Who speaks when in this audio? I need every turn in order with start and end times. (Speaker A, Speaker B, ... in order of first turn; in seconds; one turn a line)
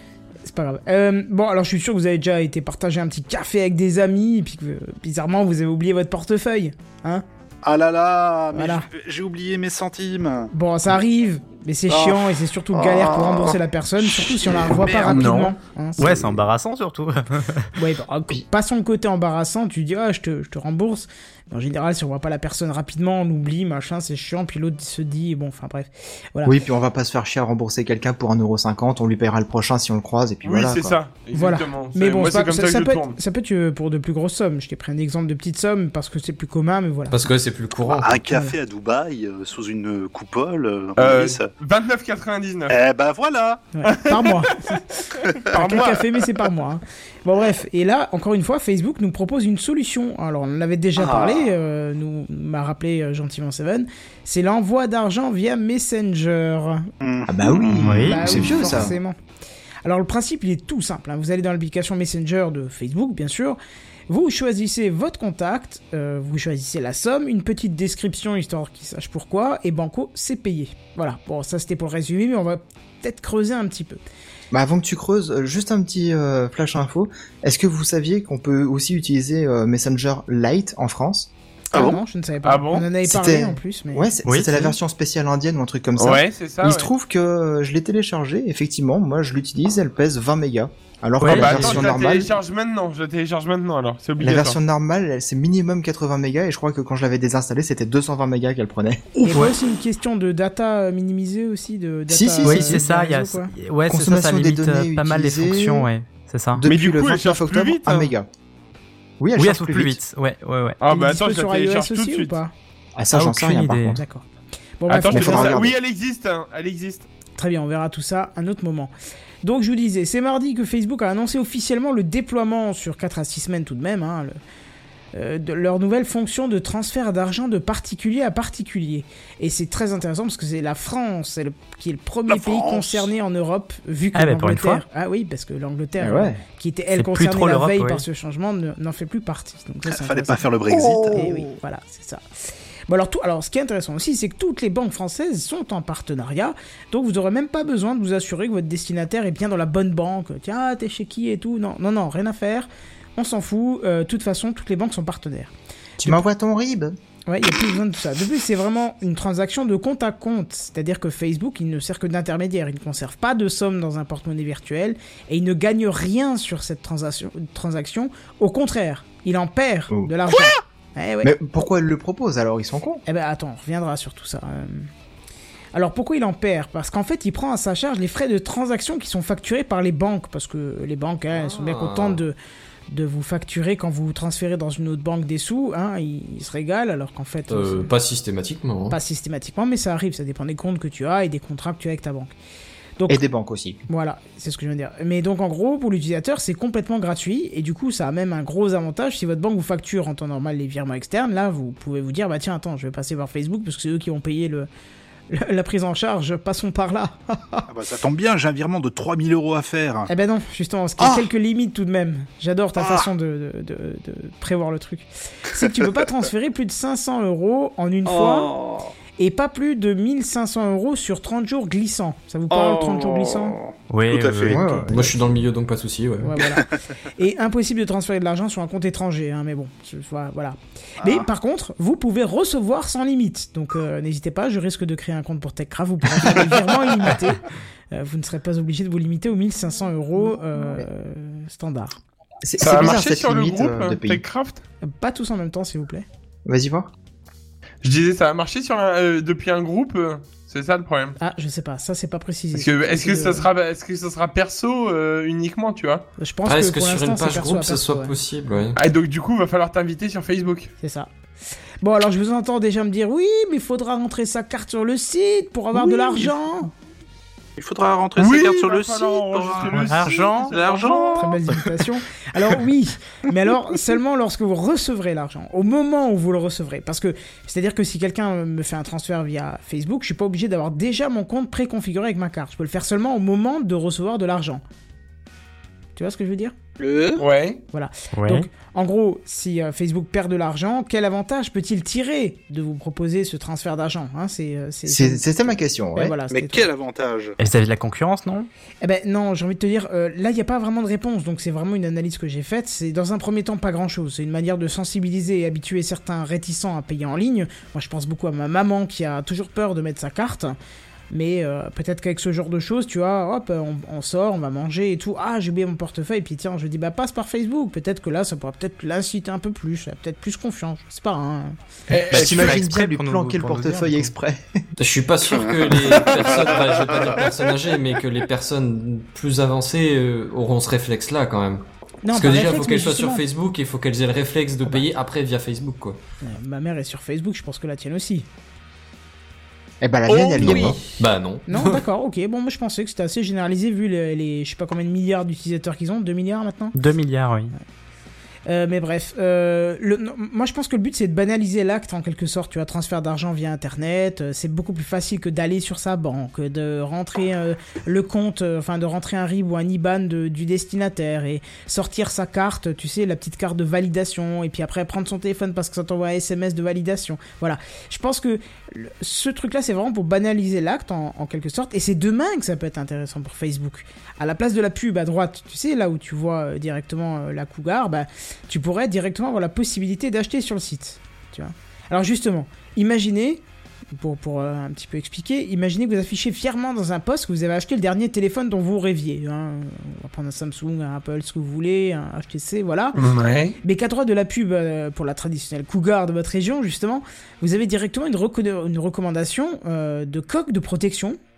Speaker A: 0.4-7.2
Speaker B: 7.6-10.5
Speaker A: 8.5-8.9
Speaker A: 10.5-16.1
Speaker B: 11.9-15.5
Speaker C: 16.0-17.7
Speaker A: 17.8-26.5
Speaker D: 26.4-31.0
Speaker E: 30.4-33.2
Speaker A: 31.3-37.2
Speaker F: 37.1-38.1
Speaker B: 37.9-41.5
Speaker A: 38.3-38.5
Speaker E: 41.0-42.8
Speaker B: 42.7-43.6
Speaker A: 43.7-44.8
Speaker E: 43.9-44.8
Speaker E: 45.4-46.1
Speaker A: 45.5-56.9
Speaker B: 51.0-51.5
Speaker B: 57.0-58.9
Speaker D: 57.3-58.9
Speaker C: 57.8-58.3
Speaker A: 58.0-59.1
Speaker A: 59.8-63.6
Speaker A: 64.1-74.0
Speaker D: 74.5-81.3
Speaker A: 81.7-84.1
Speaker B: 81.7-82.0
Speaker E: 82.4-82.9
Speaker D: 83.0-92.3
Speaker C: 84.2-84.7
Speaker E: 86.0-86.9
Speaker C: 91.2-91.8
Speaker E: 91.3-94.6
Speaker D: 94.2-99.0
Speaker C: 99.2-99.5
Speaker A: 99.2-103.5
Speaker D: 102.1-102.8
Speaker C: 102.4-106.6
Speaker D: 103.9-105.9
Speaker D: 106.5-108.3
Speaker E: 106.7-108.1
Speaker D: 109.2-110.0
Speaker C: 109.4-110.8
Speaker E: 110.8-112.3
Speaker A: 110.8-112.5
Speaker D: 113.0-114.0
Speaker C: 113.1-114.0
Speaker A: 113.9-114.2
Speaker A: 114.8-115.6
Speaker E: 114.9-117.1
Speaker D: 115.1-115.7
Speaker A: 117.4-118.9
Speaker A: 119.4-124.4
Speaker A: 125.1-142.2
Speaker B: 132.3-133.1
Speaker C: 134.1-134.8
Speaker D: 136.0-136.4
Speaker C: 136.9-138.0
Speaker B: 139.9-141.4
Speaker D: 140.7-141.4
Speaker A: 142.9-155.5
Speaker D: 156.0-156.9
Speaker A: 157.3-171.3
Speaker D: 171.2-173.0
Speaker A: 173.1-174.9
Speaker A: 175.7-182.3
Speaker F: 181.3-182.2
Speaker A: 182.9-187.9
Speaker F: 187.5-189.0
Speaker A: 188.9-192.3
Speaker A: 193.0-193.2
Speaker D: 193.1-193.8
Speaker A: 193.9-204.7
Speaker A: 205.3-207.7
Speaker B: 207.7-210.1
Speaker A: 210.1-218.5
Speaker B: 211.0-211.2
Speaker B: 218.0-218.8
Speaker A: 219.2-223.6
Speaker B: 222.5-224.6
Speaker C: 223.9-224.9
Speaker D: 224.4-225.1
Speaker F: 224.9-226.3
Speaker A: 226.2-242.0
Speaker B: 231.0-231.3
Speaker D: 242.4-244.2
Speaker E: 242.6-244.6
Speaker A: 244.8-246.1
Speaker D: 246.4-246.9
Speaker E: 247.8-251.2
Speaker A: 251.2-253.5
Speaker E: 252.5-256.0
Speaker A: 256.2-258.1
Speaker F: 256.4-258.8
Speaker E: 258.8-260.7
Speaker A: 260.8-261.1
Speaker A: 261.8-266.7
Speaker B: 265.8-266.3
Speaker B: 267.6-271.4
Speaker E: 268.2-271.3
Speaker C: 269.7-270.5
Speaker A: 271.1-284.6
Speaker A: 285.9-286.5
Speaker B: 286.8-287.2
Speaker E: 287.2-287.6
Speaker A: 287.7-296.7
Speaker C: 288.1-288.5
Speaker D: 294.9-296.1
Speaker B: 296.3-297.4
Speaker C: 297.4-298.5
Speaker A: 298.8-310.5
Speaker A: 311.1-321.5
Speaker E: 321.9-322.6
Speaker C: 322.1-324.1
Speaker D: 322.1-324.6
Speaker F: 324.8-336.0
Speaker A: 332.0-333.2
Speaker A: 336.2-338.2
Speaker D: 339.8-340.8
Speaker E: 340.1-340.6
Speaker F: 340.4-341.8
Speaker A: 341.5-346.8
Speaker C: 346.7-347.5
Speaker A: 348.5-383.4
Speaker A: 383.9-393.0
Speaker E: 392.9-393.6
Speaker A: 393.6-401.2